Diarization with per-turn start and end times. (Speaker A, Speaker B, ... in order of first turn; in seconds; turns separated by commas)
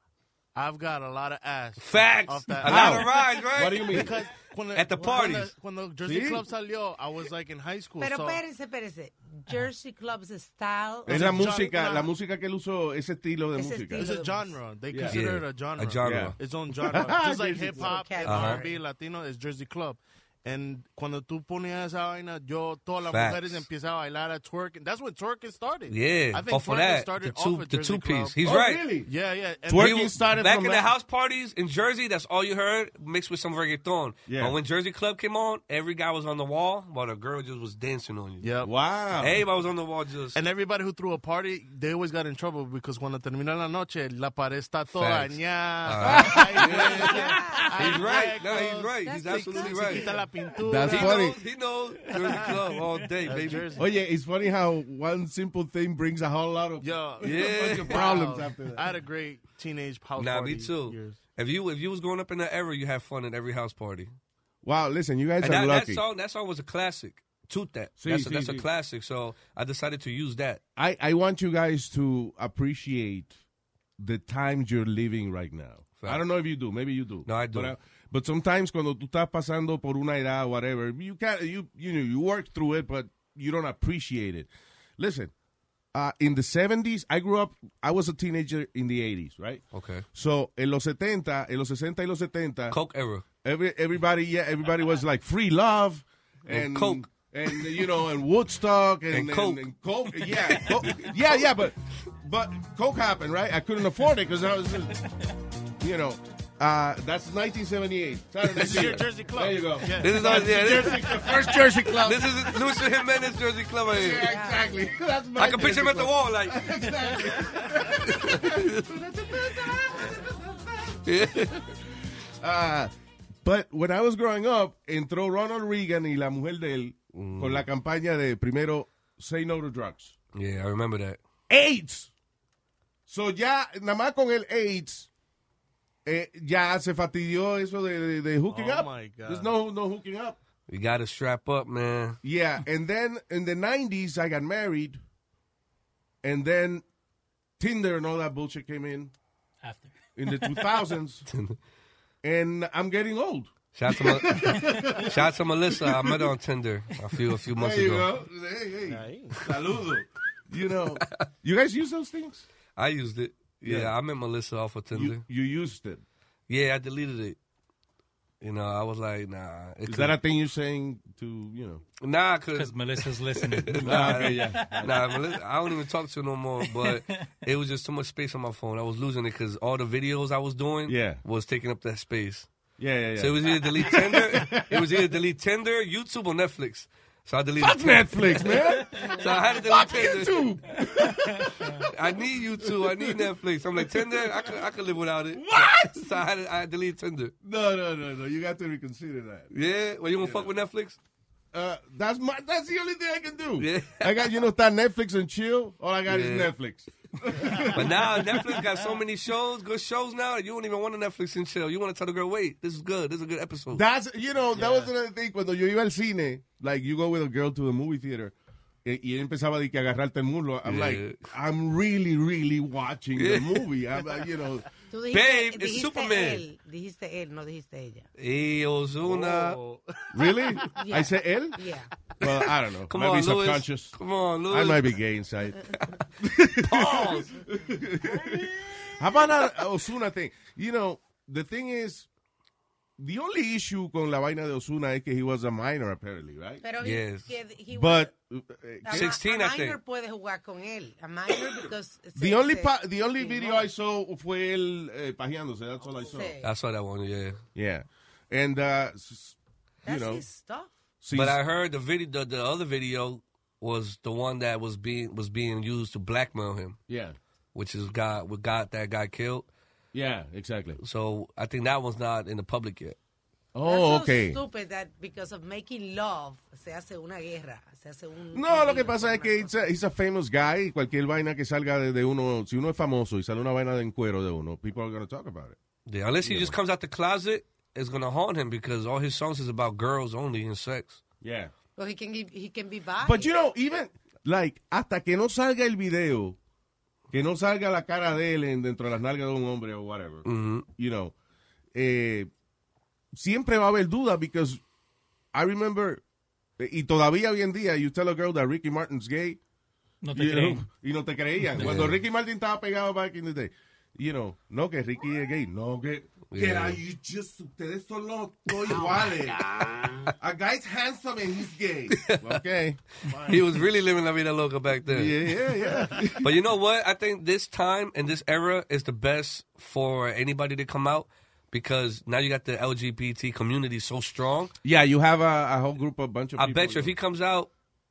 Speaker A: 0.5-8.4, Speaker B: 1.8-4.1, Speaker C: 2.6-4.2, Speaker B: 4.7-5.5, Speaker C: 6.0-6.4, Speaker D: 8.0-11.5, Speaker A: 11.1-12.1, Speaker C: 11.1-14.1, Speaker D: 13.5-14.6, Speaker A: 13.9-28.4, Speaker C: 14.9-15.2, Speaker B: 15.1-16.3, Speaker C: 16.0-16.3, Speaker C: 16.9-18.0, Speaker D: 17.8-18.8, Speaker B: 18.2-18.6, Speaker B: 23.1-23.6, Speaker B: 25.9-28.8, Speaker C: 28.4-29.1, Speaker A: 29.0-30.1, Speaker C: 29.6-30.9, Speaker B: 29.7-38.5, Speaker C: 34.3-34.6, Speaker A: 38.4-38.7, Speaker C: 38.6-39.4, Speaker B: 39.2-40.4, Speaker A: 40.3-51.3, Speaker B: 45.0-50.2, Speaker C: 46.0-47.3, Speaker D: 47.1-47.6, Speaker D: 48.6-50.2, Speaker C: 50.6-51.4, Speaker B: 50.9-53.8, Speaker A: 52.1-52.5, Speaker A: 53.2-53.8, Speaker C: 53.8-58.9, Speaker A: 56.8-61.2, Speaker B: 57.2-58.1, Speaker B: 60.1-64.1, Speaker C: 64.6-66.0, Speaker B: 65.4-70.6, Speaker C: 68.0-68.7, Speaker C: 70.8-73.4, Speaker C: 74.0-85.3, Speaker B: 77.2-77.7, Speaker C: 85.9-89.6, Speaker B: 89.7-90.0, Speaker C: 90.1-92.8, Speaker B: 92.7-93.2, Speaker C: 93.4-105.0, Speaker B: 96.5-97.8, Speaker B: 99.1-101.5, Speaker C: 105.8-112.7, Speaker A: 108.5-112.0, Speaker B: 110.0-114.3, Speaker C: 113.9-121.0, Speaker D: 114.2-114.8, Speaker B: 115.4-117.4, Speaker B: 117.9-118.9, Speaker B: 121.0-121.7, Speaker C: 122.4-122.9, Speaker C: 123.4-130.1, Speaker B: 127.1-127.6, Speaker B: 130.3-131.2, Speaker C: 131.5-132.1, Speaker C: 133.1-135.1, Speaker C: 136.1-140.4, Speaker A: 138.5-139.5, Speaker B: 140.7-142.2, Speaker C: 142.2-145.0, Speaker C: 146.2-146.8, Speaker C: 147.6-149.1, Speaker E: 149.6-150.6, Speaker C: 150.2-151.2, Speaker B: 151.3-151.6, Speaker C: 152.2-156.3, Speaker B: 153.7-158.1, Speaker E: 154.5-154.8, Speaker C: 157.5-162.4, Speaker A: 158.9-159.4, Speaker B: 162.8-165.2, Speaker C: 163.6-163.9, Speaker C: 164.9-166.0, Speaker B: 166.5-167.4, Speaker B: 168.4-170.1, Speaker C: 169.8-171.8, Speaker B: 172.0-182.5, Speaker E: 172.5-175.4, Speaker C: 173.8-174.9, Speaker E: 176.6-177.3, Speaker C: 180.9-181.2, Speaker C: 182.8-185.1, Speaker B: 183.1-190.4, Speaker C: 187.6-194.6, Speaker B: 191.7-197.3, Speaker C: 195.3-196.2, Speaker C: 197.4-199.5, Speaker B: 199.5-201.0, Speaker C: 200.2-200.5, Speaker C: 201.5-208.5, Speaker B: 203.6-204.3, Speaker B: 206.1-206.5, Speaker B: 207.7-213.8, Speaker C: 213.7-224.6, Speaker A: 214.6-214.9, Speaker B: 220.6-221.2, Speaker B: 223.2-223.7, Speaker D: 224.9-228.1, Speaker B: 225.1-226.4, Speaker B: 228.2-229.6, Speaker A: 229.0-230.8, Speaker C: 230.1-231.6, Speaker D: 230.7-231.9, Speaker C: 232.2-234.0, Speaker B: 232.2-234.9, Speaker C: 234.5-242.1, Speaker B: 235.8-236.1, Speaker B: 236.6-237.3, Speaker C: 243.0-246.6, Speaker D: 246.6-248.1, Speaker B: 246.8-247.3, Speaker C: 247.7-249.2, Speaker D: 248.8-253.7, Speaker B: 248.9-249.8, Speaker C: 252.2-256.3, Speaker D: 256.0-256.5, Speaker B: 256.4-257.4, Speaker C: 257.5-260.2, Speaker D: 259.8-260.7, Speaker C: 261.0-261.4, Speaker B: 261.1-266.8, Speaker C: 266.9-267.2, Speaker B: 267.5-269.4, Speaker C: 269.9-270.8, Speaker B: 270.8-273.0, Speaker C: 273.5-274.4, Speaker D: 273.6-279.5, Speaker C: 278.3-285.6, Speaker B: 285.9-291.0, Speaker C: 286.2-286.6, Speaker C: 291.2-291.5, Speaker D: 291.8-293.3, Speaker C: 293.0-296.4, Speaker C: 297.1-301.1, Speaker B: 300.2-300.6, Speaker C: 301.7-302.3, Speaker C: 303.1-304.6, Speaker C: 305.3-306.0, Speaker C: 306.6-309.4, Speaker E: 310.0-310.6, Speaker C: 310.1-319.6, Speaker E: 311.5-311.9, Speaker B: 311.6-312.0, Speaker B: 316.3-316.8, Speaker B: 319.4-320.1, Speaker C: 320.2-323.5, Speaker B: 321.9-322.4, Speaker B: 323.1-325.3, Speaker C: 324.9-326.3, Speaker B: 326.2-334.5, Speaker C: 334.6-336.9, Speaker B: 336.4-337.5